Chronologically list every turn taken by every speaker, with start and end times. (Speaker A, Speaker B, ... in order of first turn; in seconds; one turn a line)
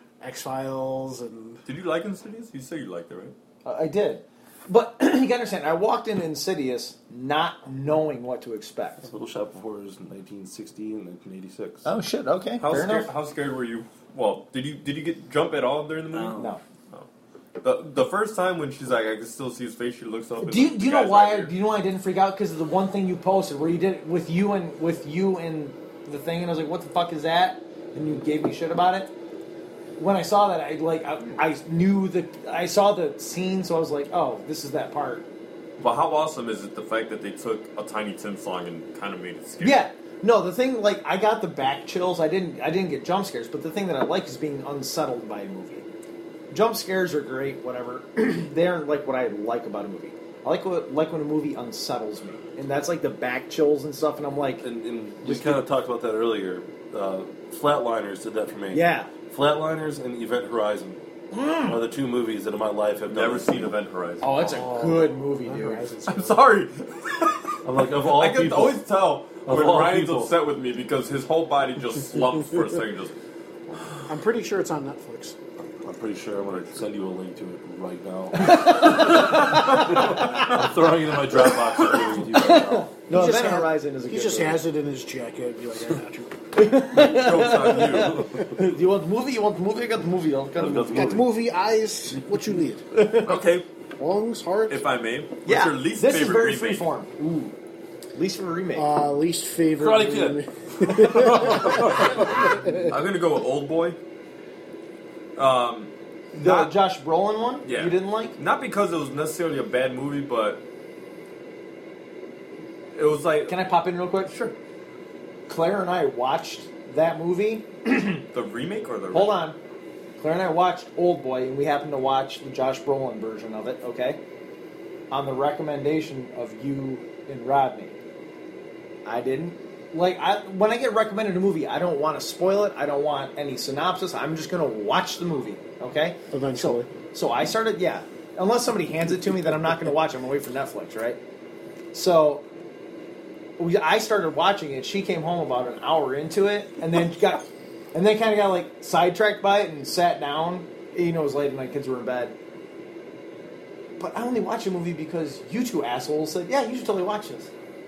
Speaker A: 0.2-1.6
Speaker B: 1.6-3.3
Speaker C: 3.6-9.1
Speaker D: 9.0-11.9
Speaker C: 11.8-13.1
Speaker B: 12.6-17.1
Speaker D: 16.1-16.4
Speaker C: 16.3-16.6
Speaker B: 17.6-21.5
Speaker C: 20.4-29.1
Speaker C: 30.0-35.2
Speaker B: 35.8-39.9
Speaker C: 39.6-45.9
Speaker C: 46.5-54.6
Speaker D: 54.6-61.0
Speaker C: 55.2-55.6
Speaker C: 58.7-59.1
Speaker C: 61.3-61.8
Speaker D: 61.6-63.7
Speaker B: 63.1-64.5
Speaker C: 64.2-65.9
Speaker A: 64.3-66.4
Speaker B: 66.1-73.1
Speaker D: 67.6-68.8
Speaker D: 69.4-70.3
Speaker B: 73.7-74.0
Speaker A: 74.1-75.4
Speaker D: 75.8-82.9
Speaker C: 78.4-79.4
Speaker B: 79.3-80.2
Speaker C: 82.3-84.6
Speaker A: 83.1-86.4
Speaker C: 86.5-91.1
Speaker B: 86.9-88.2
Speaker D: 88.1-88.5
Speaker D: 90.5-91.3
Speaker A: 90.9-92.9
Speaker C: 92.9-93.4
Speaker B: 93.2-93.7
Speaker A: 94.0-94.8
Speaker B: 94.7-96.9
Speaker C: 95.4-97.5
Speaker C: 98.1-98.9
Speaker A: 98.7-103.0
Speaker D: 99.8-102.5
Speaker B: 102.8-104.0
Speaker B: 105.3-106.7
Speaker C: 106.4-108.3
Speaker B: 107.6-110.6
Speaker B: 112.9-113.7
Speaker C: 113.5-114.3
Speaker B: 114.2-114.5
Speaker C: 115.5-118.2
Speaker B: 118.3-119.4
Speaker C: 119.1-119.6
Speaker C: 120.2-124.2
Speaker C: 125.1-128.0
Speaker C: 129.0-141.2
Speaker A: 136.3-136.9
Speaker C: 141.9-142.4
Speaker C: 143.6-152.3
Speaker C: 154.0-157.5